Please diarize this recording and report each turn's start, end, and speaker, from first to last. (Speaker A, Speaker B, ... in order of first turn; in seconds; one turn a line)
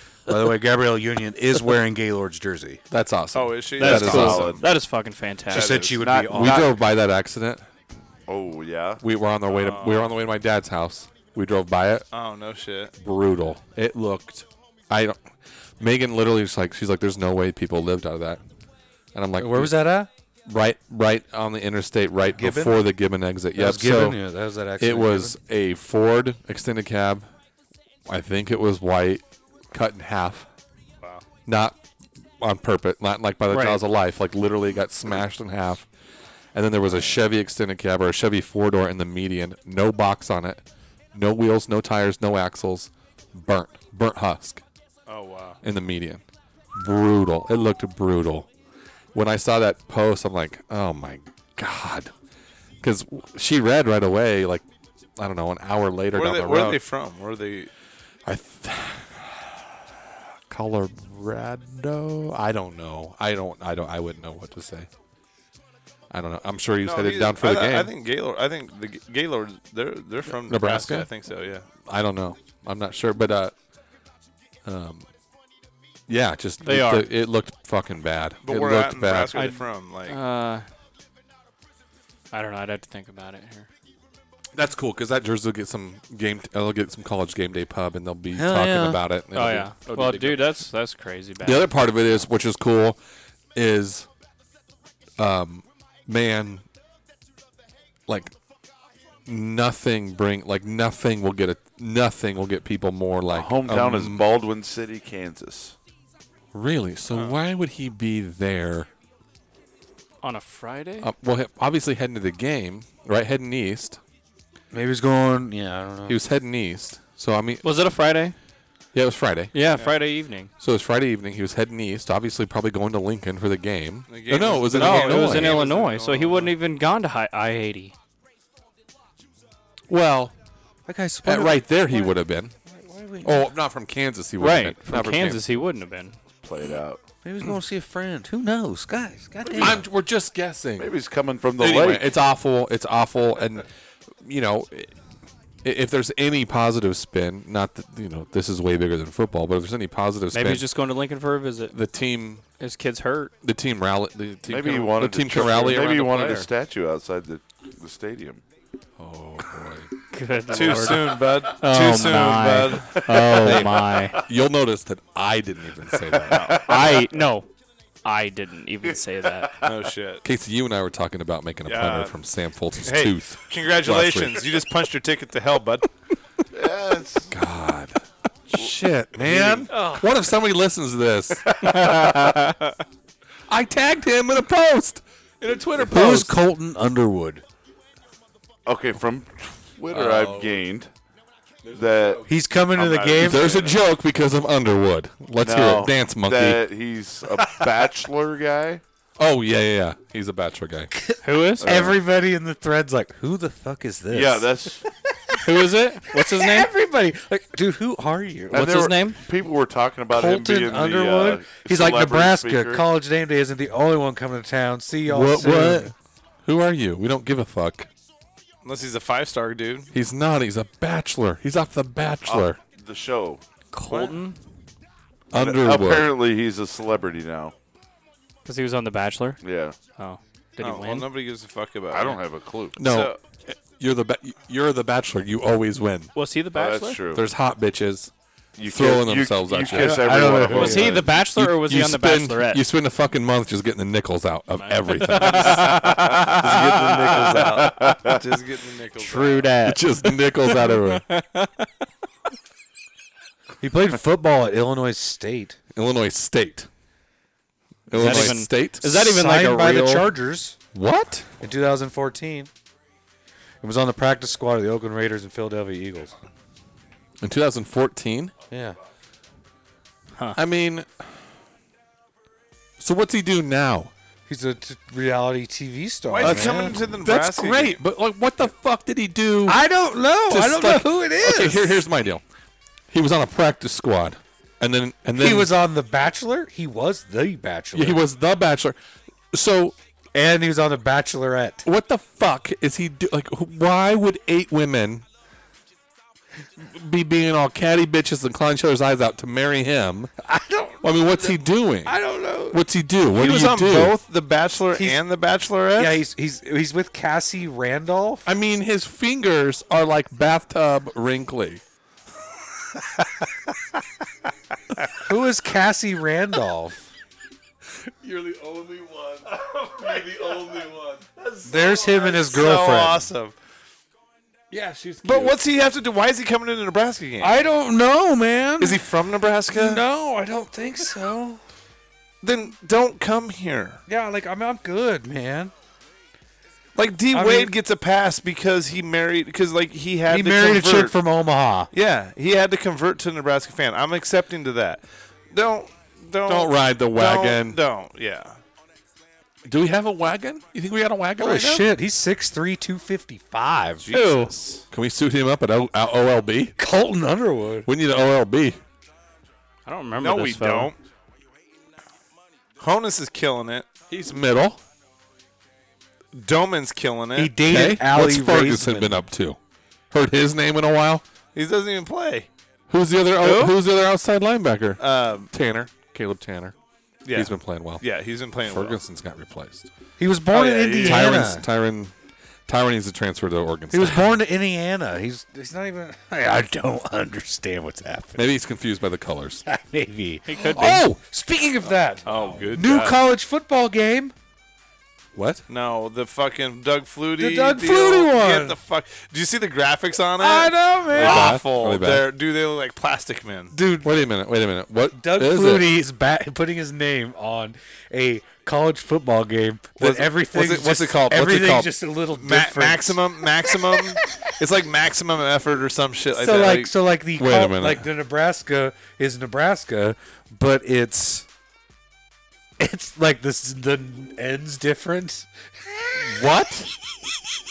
Speaker A: 0.3-2.8
Speaker B: 2.9-4.6
Speaker C: 3.3-4.6
Speaker D: 3.8-5.9
Speaker E: 3.8-4.7
Speaker A: 5.5-6.7
Speaker C: 5.5-6.3
Speaker E: 6.0-6.7
Speaker B: 6.2-7.6
Speaker E: 8.3-9.0
Speaker B: 9.0-12.1
Speaker C: 9.5-10.1
Speaker C: 12.1-12.9
Speaker B: 13.0-15.2
Speaker B: 15.8-18.4
Speaker B: 19.1-19.9
Speaker A: 19.4-20.1
Speaker B: 20.5-24.2
Speaker A: 22.2-22.8
Speaker A: 23.6-25.4
Speaker B: 24.8-27.3
Speaker B: 28.1-30.5
Speaker B: 31.5-31.8
Speaker B: 32.4-35.9
Speaker D: 33.5-33.8
Speaker B: 36.5-40.6
Speaker B: 41.1-44.6
Speaker C: 45.1-45.6
Speaker B: 45.6-46.2
Speaker B: 46.8-48.5
Speaker B: 49.1-52.1
Speaker B: 52.8-54.6
Speaker B: 55.2-56.8
Speaker C: 56.1-57.7
Speaker B: 58.3-59.6
Speaker B: 60.5-64.9
Speaker B: 66.1-67.9
Speaker C: 66.8-71.7
Speaker B: 70.3-71.1
Speaker B: 71.9-73.5
Speaker B: 74.7-75.1
Speaker B: 76.1-79.4
Speaker D: 76.6-77.1
Speaker C: 78.5-80.2
Speaker D: 79.3-80.7
Speaker D: 82.3-83.7
Speaker B: 84.5-90.5
Speaker A: 88.3-89.0
Speaker D: 89.3-92.1
Speaker B: 91.4-93.0
Speaker B: 93.5-94.1
Speaker B: 95.2-96.6
Speaker B: 98.1-98.3
Speaker B: 99.3-104.2
Speaker E: 103.3-105.8
Speaker B: 106.5-108.9
Speaker D: 110.2-111.1
Speaker B: 111.0-114.0
Speaker A: 114.7-116.2
Speaker B: 116.1-117.7
Speaker D: 117.6-118.4
Speaker B: 118.9-119.5
Speaker D: 119.5-120.5
Speaker B: 120.6-125.6
Speaker C: 124.1-126.5
Speaker D: 124.7-127.9
Speaker B: 129.9-130.3
Speaker A: 130.9-132.1
Speaker B: 131.2-132.5
Speaker A: 132.7-133.5
Speaker B: 133.2-135.4
Speaker D: 134.4-136.2
Speaker E: 136.4-137.0
Speaker A: 137.2-139.8
Speaker E: 139.5-139.8
Speaker B: 139.6-140.9
Speaker E: 140.8-142.1
Speaker B: 141.6-143.7
Speaker B: 144.2-144.9
Speaker B: 145.6-150.7
Speaker D: 150.3-151.8
Speaker B: 151.7-152.4
Speaker D: 152.6-153.3
Speaker B: 153.4-156.5
Speaker E: 154.5-158.4
Speaker D: 155.4-155.8
Speaker B: 159.0-159.9
Speaker D: 160.1-164.2
Speaker C: 160.5-163.1
Speaker E: 162.9-164.2
Speaker B: 163.3-166.6
Speaker E: 166.0-167.0
Speaker D: 166.3-167.5
Speaker D: 168.0-169.6
Speaker E: 169.5-169.7
Speaker C: 169.7-170.2
Speaker B: 170.2-174.5
Speaker C: 171.7-172.1
Speaker C: 172.8-175.9
Speaker E: 176.5-177.3
Speaker B: 177.3-181.5
Speaker A: 179.2-179.7
Speaker D: 181.6-182.8
Speaker B: 183.5-186.4
Speaker A: 185.8-187.4
Speaker E: 188.7-190.9
Speaker B: 189.9-190.6
Speaker B: 191.6-192.4
Speaker E: 191.7-193.9
Speaker A: 192.2-193.6
Speaker B: 193.2-196.6
Speaker E: 195.4-198.8
Speaker B: 199.2-200.9
Speaker A: 201.0-205.4
Speaker D: 201.2-201.7
Speaker E: 201.6-202.0
Speaker E: 204.1-204.8
Speaker D: 205.4-206.7
Speaker A: 206.1-208.7
Speaker E: 208.5-212.9
Speaker D: 208.5-209.2
Speaker A: 210.1-215.9
Speaker B: 215.1-215.9
Speaker B: 216.4-217.9
Speaker C: 218.7-219.9
Speaker B: 219.9-222.6
Speaker E: 222.2-223.4
Speaker D: 223.7-224.4
Speaker B: 225.3-226.1
Speaker E: 225.3-227.5
Speaker D: 228.4-229.4
Speaker E: 229.4-229.8
Speaker D: 229.9-231.1
Speaker C: 230.6-232.2
Speaker E: 231.9-232.8
Speaker B: 232.8-236.1
Speaker C: 232.8-233.2
Speaker D: 236.2-237.0
Speaker E: 236.5-237.3
Speaker B: 237.1-238.1
Speaker E: 238.6-241.1
Speaker B: 238.6-240.0
Speaker D: 239.7-242.7
Speaker A: 239.8-241.0
Speaker B: 241.0-245.9
Speaker D: 244.6-247.3
Speaker E: 245.7-248.2
Speaker C: 246.4-249.6
Speaker B: 247.2-247.6
Speaker D: 249.0-251.7
Speaker B: 249.6-251.1
Speaker A: 253.6-255.6
Speaker B: 255.7-256.7
Speaker B: 257.9-258.9
Speaker D: 257.9-260.1
Speaker A: 258.0-258.3
Speaker A: 258.9-260.6
Speaker B: 260.7-261.3
Speaker A: 261.4-262.5
Speaker A: 263.6-266.1
Speaker B: 267.2-268.3
Speaker A: 268.5-268.8
Speaker B: 270.4-271.1
Speaker B: 272.8-273.9
Speaker A: 274.3-276.8
Speaker C: 276.1-277.8
Speaker B: 276.2-279.6
Speaker A: 279.5-281.8
Speaker B: 280.3-282.2
Speaker B: 282.9-285.5
Speaker A: 285.2-288.0
Speaker B: 287.7-288.8
Speaker B: 289.3-289.8
Speaker A: 290.1-291.7
Speaker B: 291.6-295.1
Speaker B: 296.6-300.1
Speaker A: 300.2-301.3
Speaker B: 300.8-304.0
Speaker A: 301.9-302.6
Speaker C: 303.1-306.0
Speaker A: 304.7-305.0
Speaker A: 305.8-308.3
Speaker B: 308.2-311.6
Speaker A: 315.0-316.9
Speaker B: 318.0-321.3
Speaker A: 321.4-323.1
Speaker C: 321.5-323.4
Speaker B: 324.5-325.4
Speaker C: 325.0-327.4
Speaker A: 327.2-328.9
Speaker C: 328.6-329.8
Speaker A: 329.5-331.4
Speaker C: 332.2-333.8
Speaker A: 333.9-335.5
Speaker C: 336.8-340.9
Speaker A: 337.1-337.5
Speaker A: 340.1-341.7
Speaker C: 341.7-348.4
Speaker B: 346.3-347.6
Speaker B: 349.4-351.7
Speaker A: 351.2-353.9
Speaker C: 353.8-354.6
Speaker D: 353.9-354.3
Speaker B: 354.7-356.6
Speaker A: 356.6-357.7
Speaker B: 357.7-358.6
Speaker D: 359.7-360.7
Speaker C: 360.0-360.8
Speaker C: 362.6-363.7
Speaker B: 363.9-364.6
Speaker C: 366.1-367.4
Speaker A: 367.1-369.0
Speaker B: 367.4-369.4
Speaker B: 369.9-371.0
Speaker C: 371.4-372.3
Speaker B: 372.7-376.6
Speaker C: 373.2-373.6
Speaker C: 374.8-375.3
Speaker C: 377.1-378.8
Speaker B: 377.1-377.9
Speaker B: 378.4-379.7
Speaker A: 380.0-381.5
Speaker C: 380.3-381.2
Speaker B: 380.8-381.9
Speaker B: 382.5-384.1
Speaker A: 383.7-388.2
Speaker B: 388.2-389.4
Speaker A: 389.5-394.1
Speaker D: 390.3-390.8
Speaker B: 390.6-390.9
Speaker C: 392.1-393.0
Speaker C: 395.5-403.5
Speaker A: 397.2-398.6
Speaker A: 400.2-401.4
Speaker B: 400.9-402.1
Speaker A: 403.5-404.0
Speaker B: 403.8-405.7
Speaker A: 404.9-413.9
Speaker C: 409.8-410.7
Speaker B: 410.3-411.7
Speaker C: 412.1-416.8
Speaker A: 416.1-421.3
Speaker B: 417.2-417.9
Speaker A: 422.6-426.7
Speaker B: 426.2-426.6